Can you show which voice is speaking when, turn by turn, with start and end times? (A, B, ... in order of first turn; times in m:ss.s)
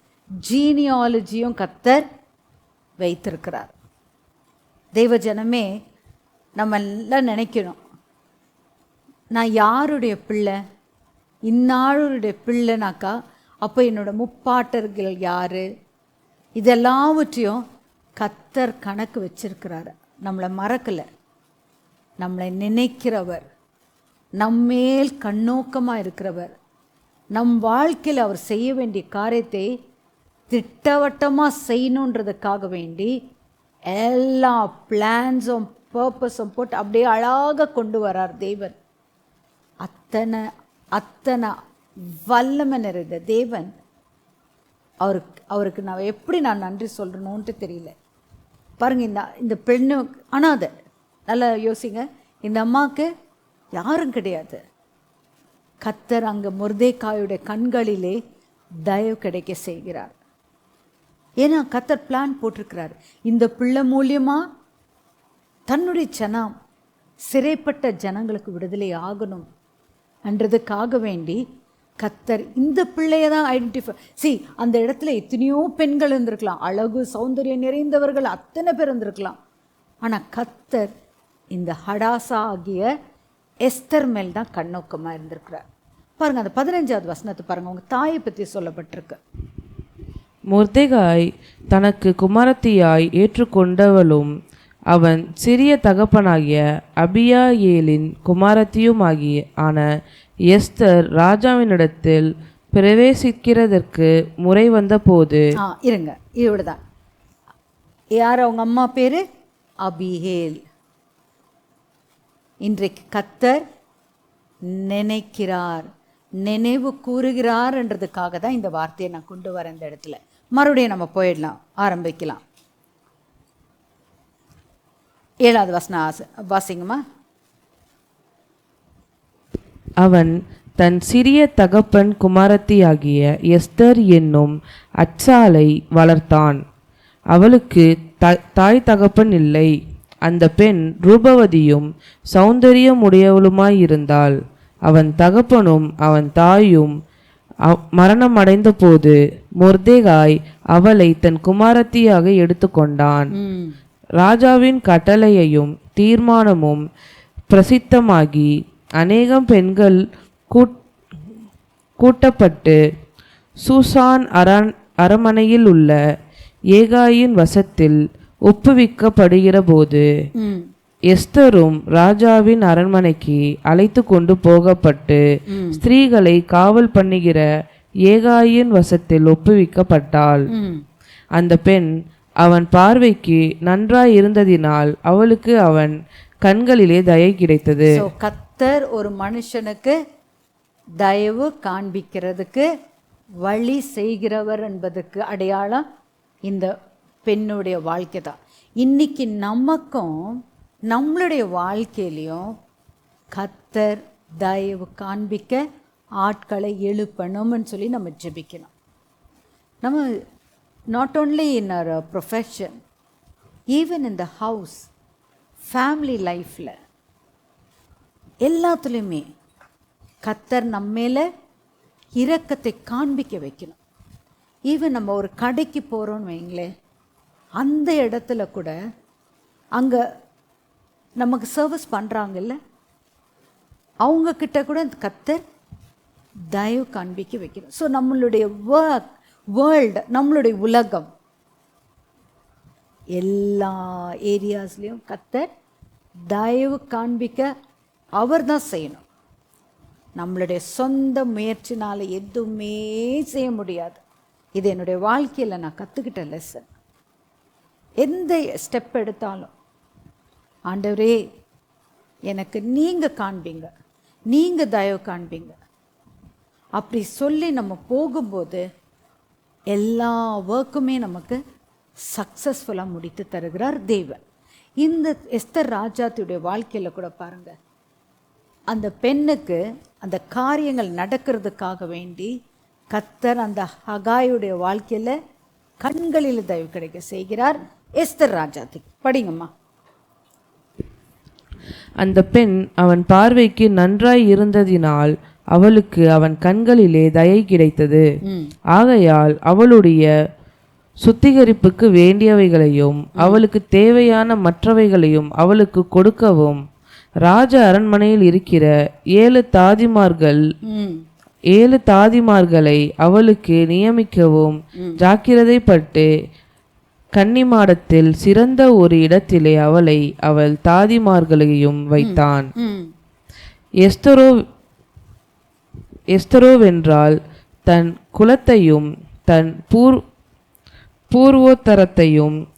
0:00.4-0:02.0 A
0:03.0-0:03.8 A
0:05.0-0:05.7 A
0:06.6-0:07.8 A
0:09.3-0:10.6 A
0:11.5-0:15.6 A
0:16.6-0:17.6 A
0:18.2-0:21.0 A
0:22.2-0:23.4 A
0:24.4-0:26.5 A
0:27.3-0:29.7 A
0:30.5-0:33.1 A
0:33.9-0:38.8 A
0:39.8-0:40.4 A
0:41.0-0:41.6 A
0:42.1-0:43.7 A
0:45.0-0:47.9 A
0:48.8-0:50.7 A
0:51.3-0:53.1 A
0:53.8-0:54.6 A
0:55.8-0:58.2 A
0:58.9-1:00.2 A
1:01.4-1:04.4 A
1:05.7-1:06.5 A
1:07.3-1:09.4 A
1:10.3-1:11.4 A
1:12.0-1:19.4 A
1:20.0-1:20.9 A
1:21.6-1:22.9 A
1:23.6-1:25.6 A
1:26.2-1:29.2 A
1:30.5-1:34.3 B
1:34.9-1:39.9 B
1:40.5-1:45.4 B
1:45.6-1:46.8 A
1:48.2-1:49.2 A
1:49.8-1:50.6 A
1:52.6-1:53.6 A
1:54.7-1:55.9 A
1:56.4-2:02.4 A
2:05.4-2:07.0 A
2:10.0-2:16.6 B
2:17.3-2:19.7 B
2:20.3-2:26.9 B
2:27.7-2:33.3 B
2:33.3-2:33.8 A
2:34.2-2:36.8 B
2:37.5-2:40.0 B
2:40.5-2:40.8 B
2:42.0-2:42.8 B
2:43.7-2:46.0 B
2:46.7-2:50.0 B
2:50.4-2:50.7 A
2:51.1-2:55.2 B
2:55.5-2:55.8 A
2:55.7-2:57.4 B
2:58.0-3:00.4 B
3:00.5-3:00.8 A
3:01.4-3:01.9 B
3:02.4-3:07.9 B
3:07.9-3:10.0 A
3:11.0-3:12.7 A
3:13.4-3:15.8 A
3:17.2-3:22.5 A
3:23.4-3:25.6 A
3:26.2-3:28.7 A
3:29.8-3:30.1 A
3:30.9-3:32.8 A
3:33.7-3:34.9 A
3:35.7-3:36.7 A
3:38.4-3:39.2 A
3:40.2-3:41.2 A
3:42.2-3:43.8 A
3:44.7-3:46.7 A
3:47.6-3:48.7 A
3:51.2-3:52.6 A
3:54.0-3:55.4 A
3:56.5-3:59.0 A
3:59.6-4:01.1 A
4:03.2-4:05.5 A
4:06.3-4:07.5 A
4:08.2-4:09.0 A
4:10.2-4:14.0 A
4:14.6-4:16.7 A
4:18.0-4:19.5 A
4:20.7-4:21.2 A
4:22.3-4:23.7 A
4:24.3-4:25.6 A
4:26.8-4:28.6 A
4:29.7-4:31.4 A
4:32.1-4:34.2 A
4:34.8-4:37.5 A
4:38.7-4:42.3 A
4:42.9-4:45.2 A
4:45.8-4:49.5 A
4:52.0-4:58.0 B
4:58.2-4:58.5 A
4:58.7-5:00.1 B
5:01.0-5:06.6 B
5:03.2-5:03.4 A
5:07.2-5:10.4 B
5:10.7-5:11.0 A
5:11.5-5:16.1 B
5:17.2-5:22.5 B
5:22.0-5:22.9 A
5:23.8-5:24.3 B
5:26.1-5:30.0 B
5:31.1-5:32.4 B